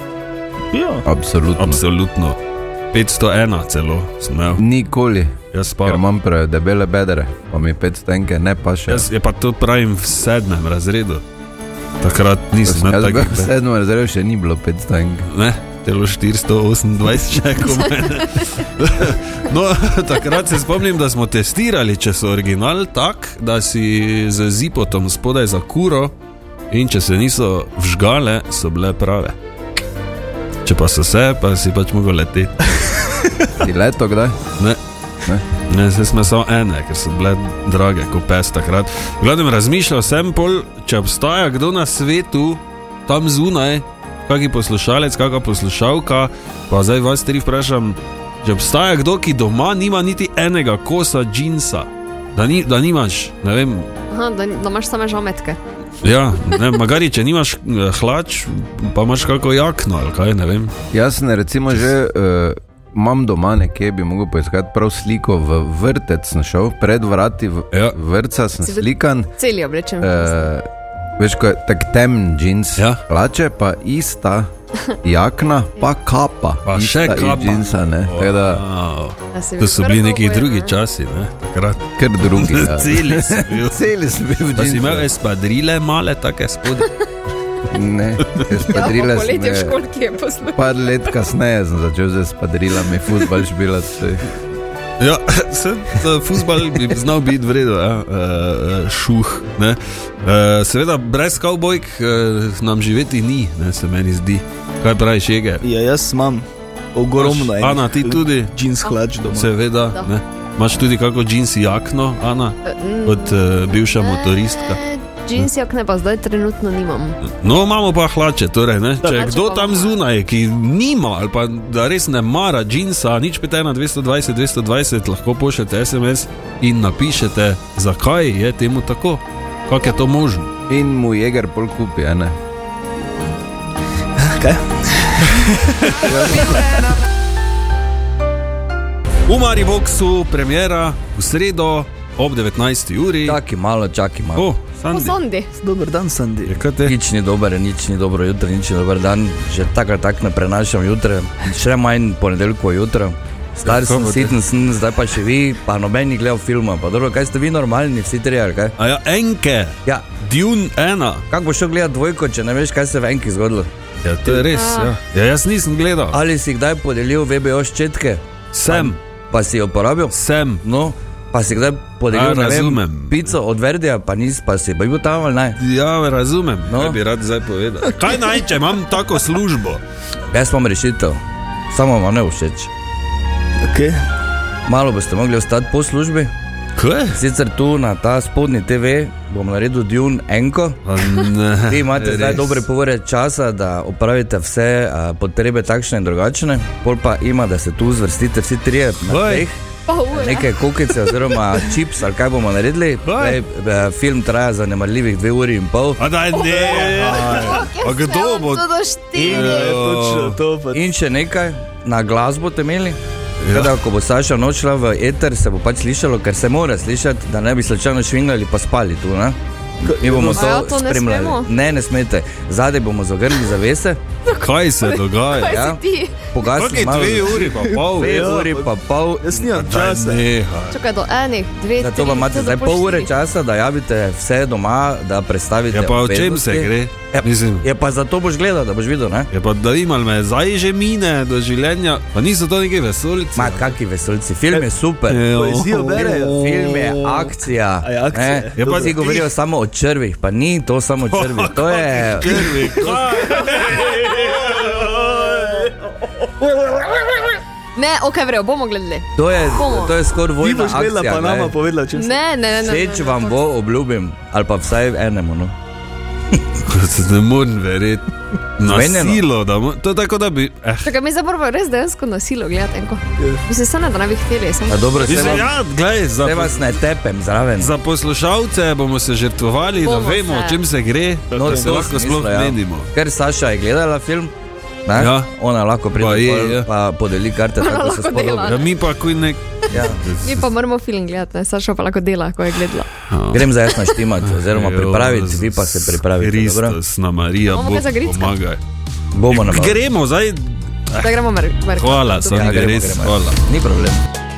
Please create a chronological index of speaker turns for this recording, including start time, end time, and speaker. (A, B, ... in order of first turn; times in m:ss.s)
0:00.7-0:01.0 A
0:01.0-0:01.8 B
0:01.6-0:02.4 C
0:02.9-0:04.6 C
0:04.6-0:09.1 B
0:05.5-0:06.0 C
0:08.9-0:11.2 C
0:12.0-0:13.5 C
0:12.6-0:15.3 B
0:15.3-0:26.1 C
0:26.7-0:29.4 C
0:30.6-0:32.9 C
0:33.6-0:34.4 B
0:35.7-0:53.9 C
0:54.1-0:55.6 D
0:56.0-1:00.7 C
1:00.9-1:09.3 B
1:08.6-1:10.5 D
1:10.0-1:14.5 B
1:15.0-1:18.6 B
1:16.7-1:23.8 C
1:19.3-1:20.7 D
1:22.0-1:25.1 B
1:24.6-1:26.9 C
1:27.7-1:29.8 B
1:28.7-1:30.6 D
1:30.5-1:34.2 B
1:35.0-1:45.6 C
1:45.6-1:49.6 A
1:47.1-1:48.5 C
1:49.3-1:54.8 C
1:52.6-1:57.2 D
1:57.2-2:10.5 C
1:59.0-2:00.0 D
2:10.7-2:12.4 B
2:14.2-2:16.3 A
2:16.1-2:16.6 C
2:19.3-2:23.4 C
2:23.2-2:24.5 E
2:24.4-2:25.2 C
2:24.9-2:25.5 D
2:25.6-2:26.6 A
2:26.4-2:27.0 C
2:26.8-2:38.7 E
2:33.6-2:34.3 C
2:38.8-2:41.2 C
2:41.3-2:43.7 E
2:44.0-2:46.2 C
2:44.4-2:44.9 D
2:46.1-2:55.6 E
2:48.5-2:49.0 C
2:50.1-2:50.6 C
2:52.1-2:53.4 C
2:55.6-2:59.8 C
2:56.7-2:57.0 E
3:00.3-3:01.2 E
3:01.7-3:02.7 E
3:03.7-3:04.0 A
3:04.7-3:06.3 E
3:06.8-3:07.2 C
3:07.1-3:10.8 E
3:10.9-3:12.7 C
3:11.7-3:19.5 E
3:19.1-3:19.5 C
3:19.9-3:20.5 D
3:20.1-3:26.0 E
3:23.0-3:23.4 C
3:26.0-3:30.4 C
3:26.4-3:29.7 D
3:26.5-3:27.6 A
3:29.2-3:30.8 A
3:30.7-3:33.0 E
3:33.4-3:33.7 C
3:33.5-3:44.0 E
3:39.8-3:40.5 A
3:40.1-3:41.5 D
3:44.3-3:46.2 D
3:44.4-3:45.6 C
3:45.5-3:45.8 E
3:46.3-3:47.4 E
3:46.4-3:48.2 C
3:47.4-3:50.2 A
3:48.0-3:49.4 E
3:49.5-3:50.8 C
3:50.7-3:53.1 D
3:51.8-3:59.3 E
3:55.7-3:57.6 C
3:59.3-4:03.8 C
4:03.4-4:05.2 E
4:05.1-4:06.2 C
4:05.2-4:07.3 A
4:06.0-4:12.5 E
4:07.8-4:08.9 A
4:08.6-4:09.3 C
4:11.1-4:14.9 C
4:12.7-4:15.7 A
4:17.8-4:19.9 D
4:19.2-4:21.6 E
4:20.4-4:22.2 A
4:22.0-4:23.4 D
4:22.6-4:25.5 E
4:26.7-4:31.0 C
4:28.6-4:29.2 E
4:30.8-4:35.3 D
4:34.7-4:35.5 E
4:35.0-4:36.8 C
4:36.2-4:37.7 E
4:37.6-4:42.9 C
4:39.8-4:40.6 D
4:41.3-4:44.3 E
4:41.4-4:41.8 A
4:44.9-4:48.6 E
4:45.0-4:45.3 C
4:45.9-4:46.7 C
4:47.6-4:48.7 D
4:48.5-4:50.5 C
4:49.7-4:50.0 E
4:50.2-4:52.9 D
4:53.1-4:53.5 C
4:53.3-4:56.8 E
4:54.2-4:58.6 C
4:57.5-4:58.4 D
4:59.2-4:59.8 E
4:59.3-5:01.2 C
5:01.0-5:02.6 D
5:01.7-5:03.4 C
5:02.3-5:04.0 E